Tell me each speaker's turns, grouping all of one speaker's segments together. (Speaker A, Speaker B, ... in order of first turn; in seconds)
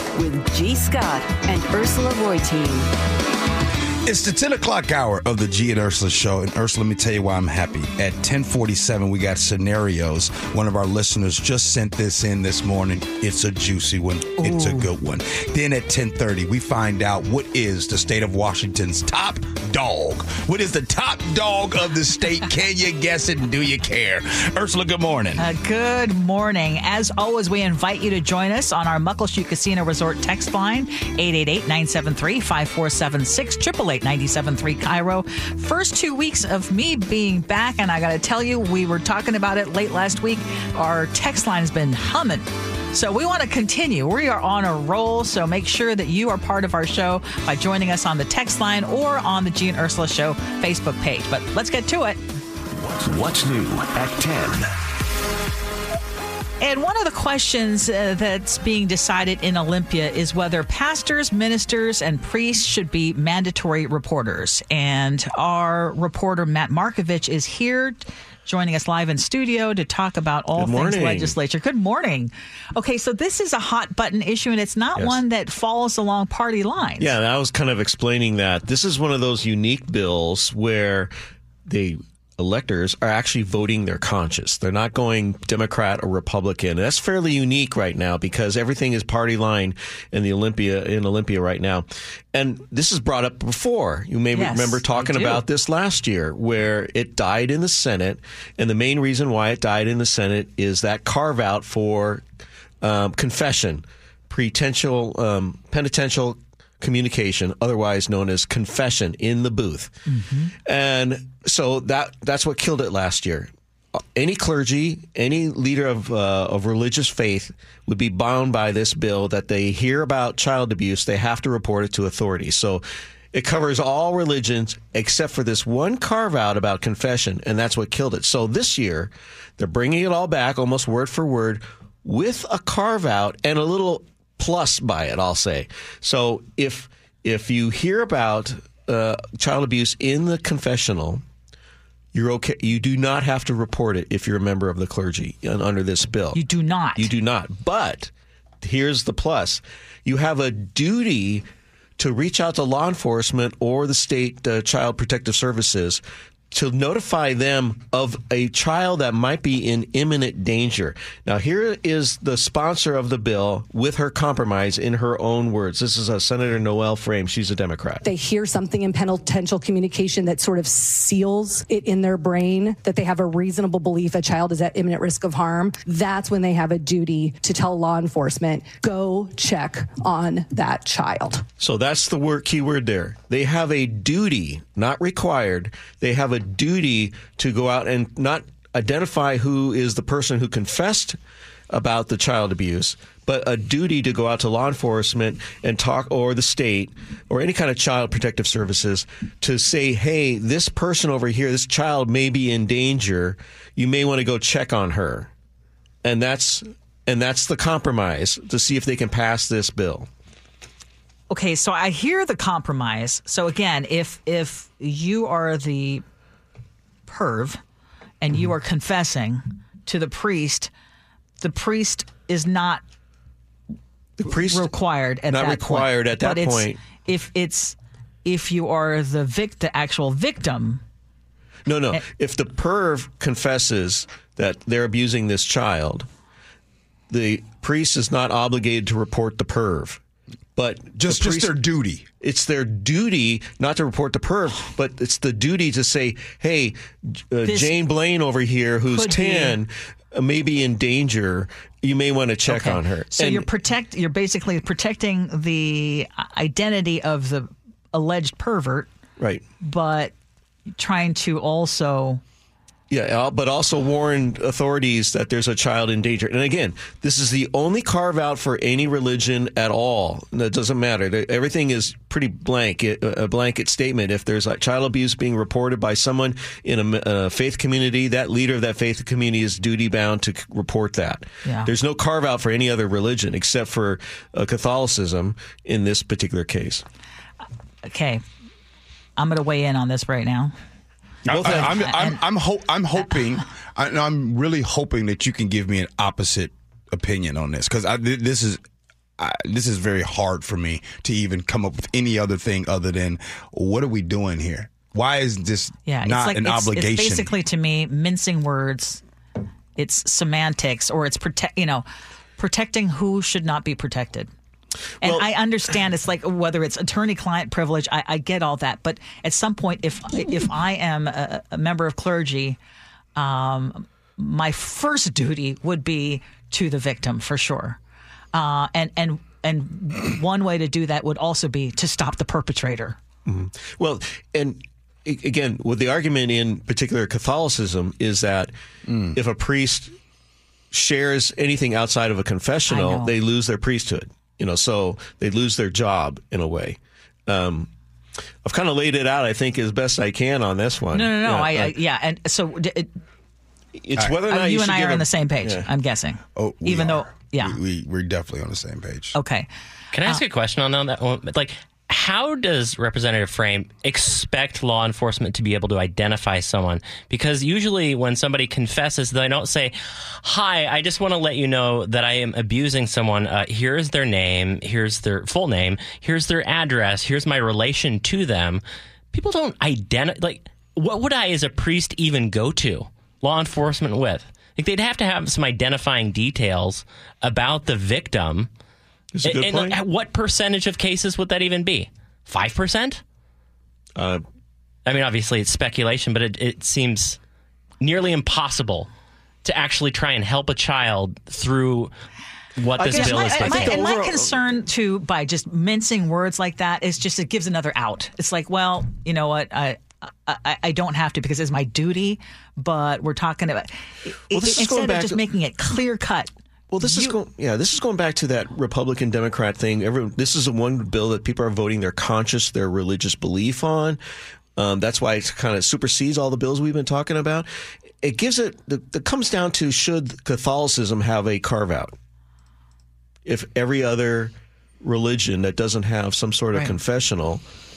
Speaker A: 0.1-2.9
Speaker B: 4.1-25.4, 241.0-242.0, 291.3-298.6, 299.2-307.3, 338.9-339.2, 356.4-359.1
Speaker C: 14.4-14.9, 25.4-52.2, 56.6-77.1, 94.3-95.4, 110.1-110.5, 146.3-147.1, 211.3-216.0, 217.1-217.6, 218.2-220.7, 221.4-222.8, 224.3-230.8, 247.4-247.7, 248.9-249.6, 252.5-258.9, 259.6-260.1, 260.8-262.2, 281.4-281.7, 287.8-288.2, 289.2-290.6, 291.4-292.2, 305.9-309.0, 309.8-311.9, 312.4-314.3, 315.0-322.6, 323.2-327.8, 328.3-333.0, 342.7-343.1, 350.9-352.9, 354.3-357.6, 359.1-359.5, 402.8-416.3, 416.8-417.2
Speaker D: 52.8-54.8
Speaker E: 70.6-71.4, 77.0-81.1, 81.7-102.2, 102.8-110.0, 110.6-141.2, 142.1-146.4, 147.0-148.1, 148.6-151.5, 152.0-168.0, 181.6-191.2, 191.7-205.3, 206.0-210.1, 224.2-224.7, 225.3-226.8, 231.7-236.1, 237.1-240.0, 240.6-241.6, 242.2-253.5, 259.2-259.4, 262.9-286.8, 291.3-291.8, 315.0-315.3, 333.3-338.5, 339.1-339.9, 340.7-347.7, 348.4-351.8, 353.8-355.7, 389.1-389.8, 394.0-394.2, 402.8-404.3, 414.3-415.2, 416.7-424.0, 424.6-427.5, 428.0-431.9, 433.3-437.4
Speaker F: 168.1-181.4
Speaker G: 359.9-378.6, 379.1-388.5, 389.2-393.0, 394.9-397.2, 397.8-398.9, 399.4-401.9, 402.6-403.8